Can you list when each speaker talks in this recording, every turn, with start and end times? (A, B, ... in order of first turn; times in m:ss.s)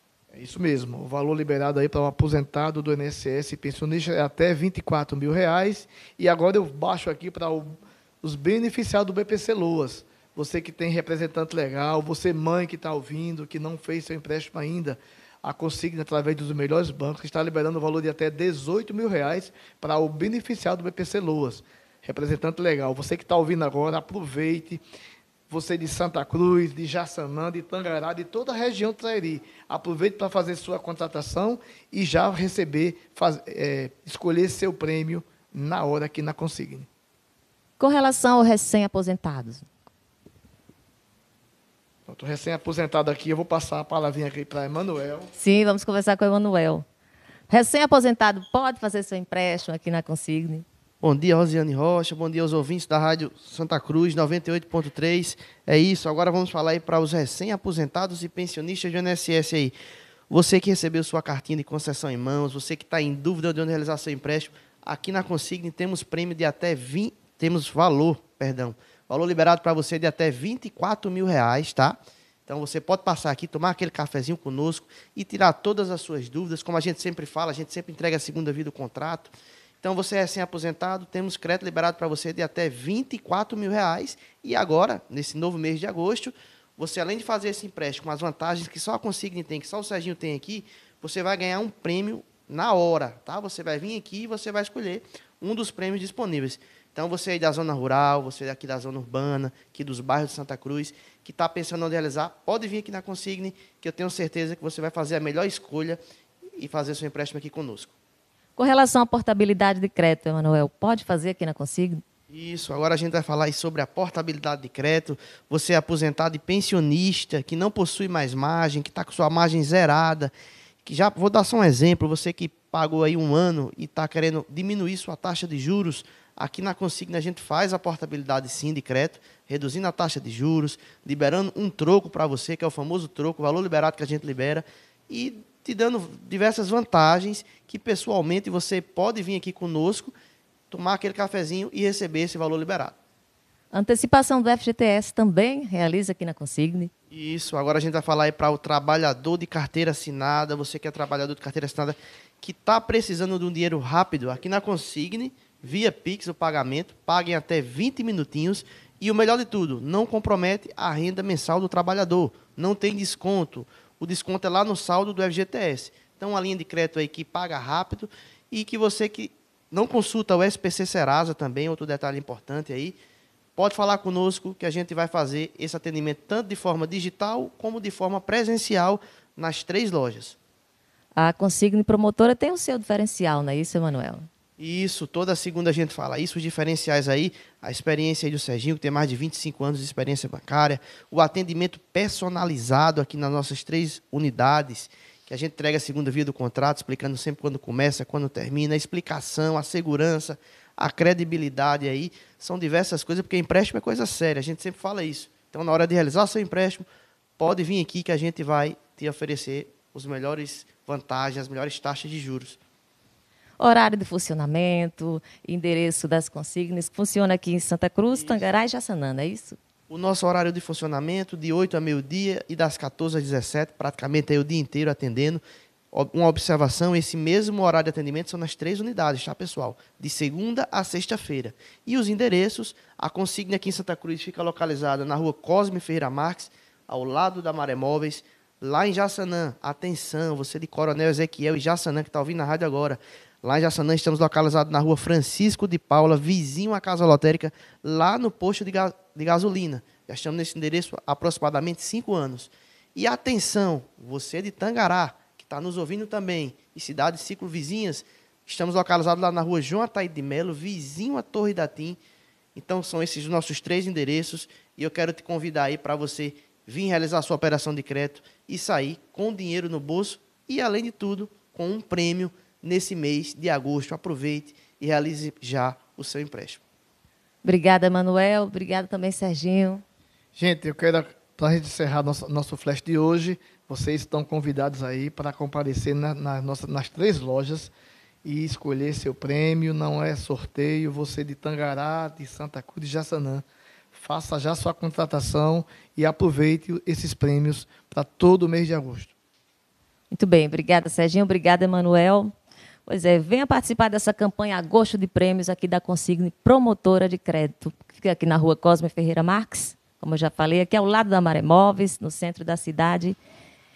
0:00.3-0:24.8 A
0:25.5-0:36.9 A
0:37.8-0:39.7 B
0:42.1-0:45.3 A
0:45.3-0:46.8 B
0:47.5-0:50.6 B
0:51.0-0:59.7 C
1:00.3-1:46.0 C
1:46.5-1:47.9 C
1:48.6-1:52.0 B
1:52.3-2:20.1 C
2:20.7-2:23.0 C
2:23.7-2:26.9 B
2:27.1-2:53.0 C
2:53.6-3:00.4 C
3:01.2-3:04.3 B
3:04.6-3:26.8 C
3:27.4-3:32.6 C
3:33.6-3:39.6 B
3:38.1-3:38.5 C
3:39.9-4:22.0 C
4:22.5-4:36.6 C
4:37.4-4:39.8 B
4:40.3-4:47.7 A
4:48.2-4:59.1 A
5:00.1-5:02.3 B
5:02.8-5:13.2 B